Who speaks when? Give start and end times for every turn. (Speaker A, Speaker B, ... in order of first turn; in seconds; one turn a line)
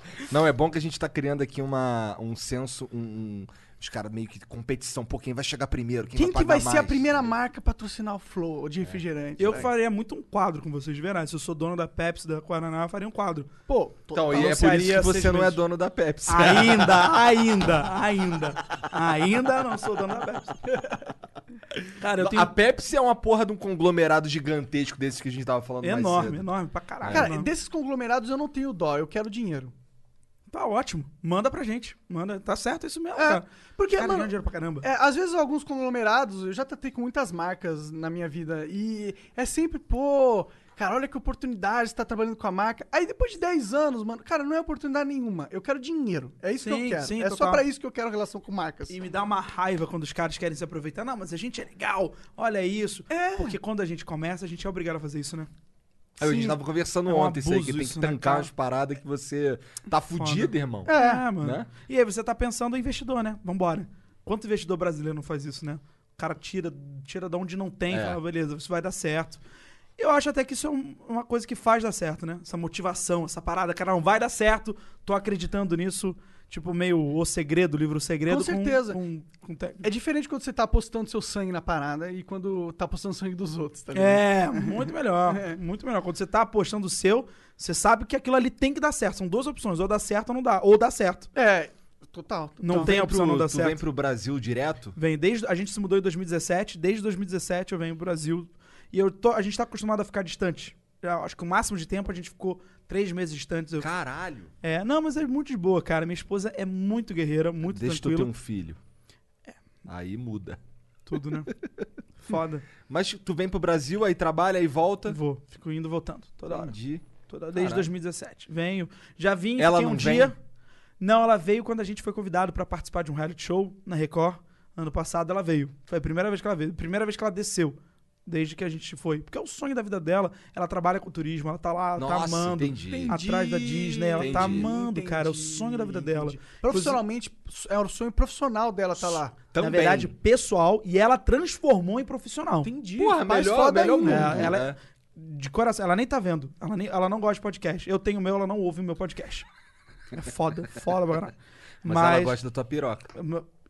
Speaker A: 0.3-7.3
Speaker B: 6.1-9.7
Speaker C: 9.4-13.5
Speaker B: 13.7-14.5
Speaker A: 14.1-17.1
Speaker C: 14.3-15.6
Speaker C: 16.2-20.6
Speaker C: 22.0-22.5
Speaker A: 22.2-26.4
Speaker C: 25.8-27.5
Speaker A: 27.0-27.3
Speaker B: 27.1-29.7
Speaker C: 30.5-34.9
Speaker B: 33.1-34.3
Speaker B: 34.8-48.9
Speaker C: 46.6-47.6
Speaker C: 48.9-55.5
Speaker B: 53.1-53.5
Speaker A: 56.2-61.7
Speaker C: 57.0-58.5
Speaker C: 60.1-69.4
Speaker B: 60.9-61.2
Speaker A: 67.9-68.2
Speaker C: 70.0-79.8
Speaker B: 78.3-79.0
Speaker B: 79.8-85.5
Speaker C: 83.9-91.3
Speaker B: 91.3-92.9
Speaker C: 92.6-93.8
Speaker A: 92.7-94.9
Speaker C: 95.0-103.9
Speaker A: 103.8-104.5
Speaker C: 104.6-108.3
Speaker A: 107.7-108.8
Speaker A: 109.8-110.6
Speaker C: 111.1-111.5
Speaker C: 112.2-112.7
Speaker A: 112.9-115.2
Speaker C: 115.1-116.7
Speaker A: 116.5-117.9
Speaker C: 117.3-120.3
Speaker A: 119.6-120.3
Speaker C: 121.0-137.0
Speaker A: 132.0-133.2
Speaker B: 132.9-139.3
Speaker A: 134.2-134.7
Speaker A: 139.5-140.1
Speaker C: 139.6-142.7
Speaker B: 142.6-144.5
Speaker A: 142.9-144.8
Speaker C: 144.0-149.5
Speaker C: 150.1-152.4
Speaker A: 151.8-153.1
Speaker C: 153.1-153.4